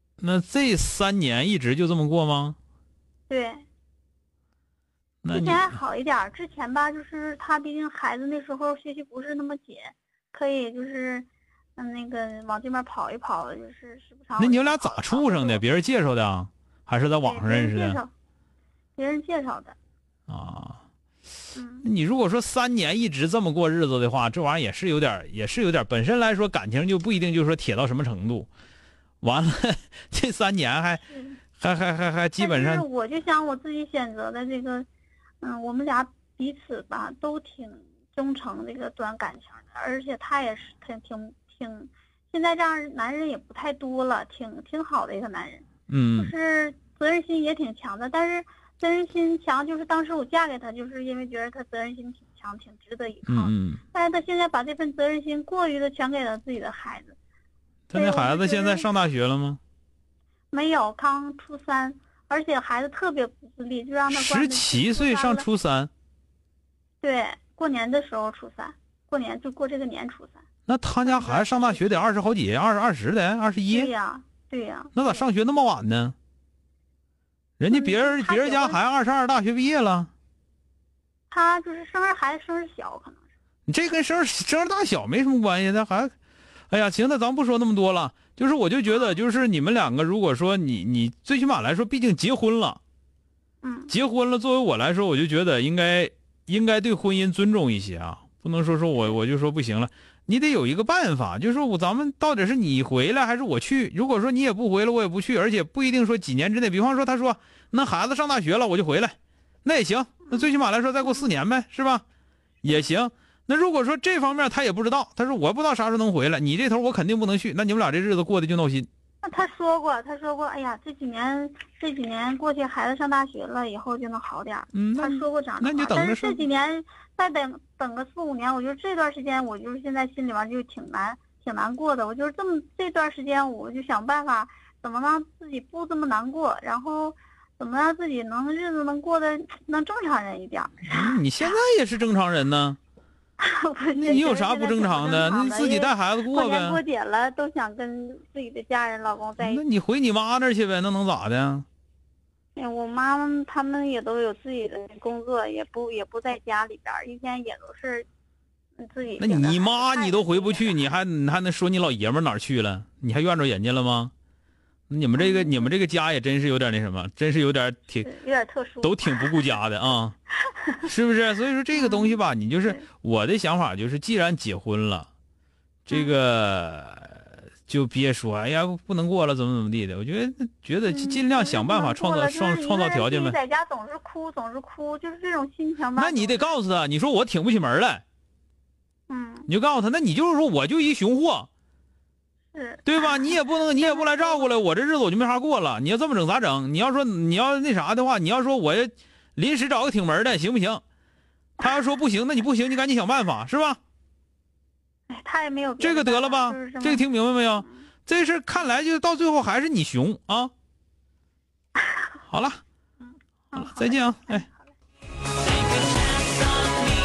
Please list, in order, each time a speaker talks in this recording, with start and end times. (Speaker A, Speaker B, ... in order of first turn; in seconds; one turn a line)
Speaker A: 0.2-2.6
Speaker B: 3.3-3.6
Speaker A: 5.2-5.8
Speaker B: 5.3-15.6
Speaker A: 14.4-18.0
Speaker B: 17.2-18.1
Speaker B: 19.0-19.8
Speaker A: 20.3-20.8
Speaker B: 21.6-21.9
Speaker A: 21.8-28.5
Speaker A: 29.2-31.1
Speaker B: 31.1-31.4
Speaker A: 31.6-32.9
Speaker B: 32.4-34.9
Speaker B: 35.4-45.6
Speaker A: 45.9-46.3
Speaker B: 46.2-57.2
Speaker A: 53.3-53.8
Speaker A: 57.9-59.6
Speaker B: 57.9-58.9
Speaker B: 60.5-65.5
Speaker A: 64.1-65.9
Speaker B: 67.0-70.5
Speaker A: 70.7-73.9
Speaker B: 71.0-72.0
Speaker B: 73.7-75.2
Speaker A: 75.0-76.2
Speaker A: 77.6-80.1
Speaker B: 77.7-78.8
Speaker B: 81.3-83.2
Speaker A: 83.7-86.1
Speaker A: 86.7-92.8
Speaker B: 93.6-93.9
Speaker A: 93.9-112.0
Speaker B: 110.3-110.6
Speaker A: 112.6-118.9
Speaker B: 119.2-141.2
Speaker A: 124.7-126.4
Speaker A: 140.9-142.8
Speaker B: 143.4-149.6
Speaker A: 144.0-146.8
Speaker A: 149.4-151.7
Speaker B: 152.6-158.1
Speaker B: 158.8-160.9
Speaker A: 159.2-164.1
Speaker A: 164.9-168.1
Speaker B: 165.2-165.7
Speaker B: 168.0-169.6
Speaker A: 168.8-170.2
Speaker A: 170.8-175.1
Speaker B: 171.7-172.9
Speaker A: 175.9-183.4
Speaker B: 180.9-186.5
Speaker A: 186.0-188.0
Speaker B: 189.1-189.5
Speaker A: 189.5-191.5
Speaker B: 192.5-194.5
Speaker A: 192.9-200.8
Speaker A: 201.6-203.8
Speaker B: 205.1-207.1
Speaker A: 205.8-210.5
Speaker B: 207.6-207.8
Speaker A: 212.3-212.6
Speaker B: 213.0-214.8
Speaker A: 213.6-214.5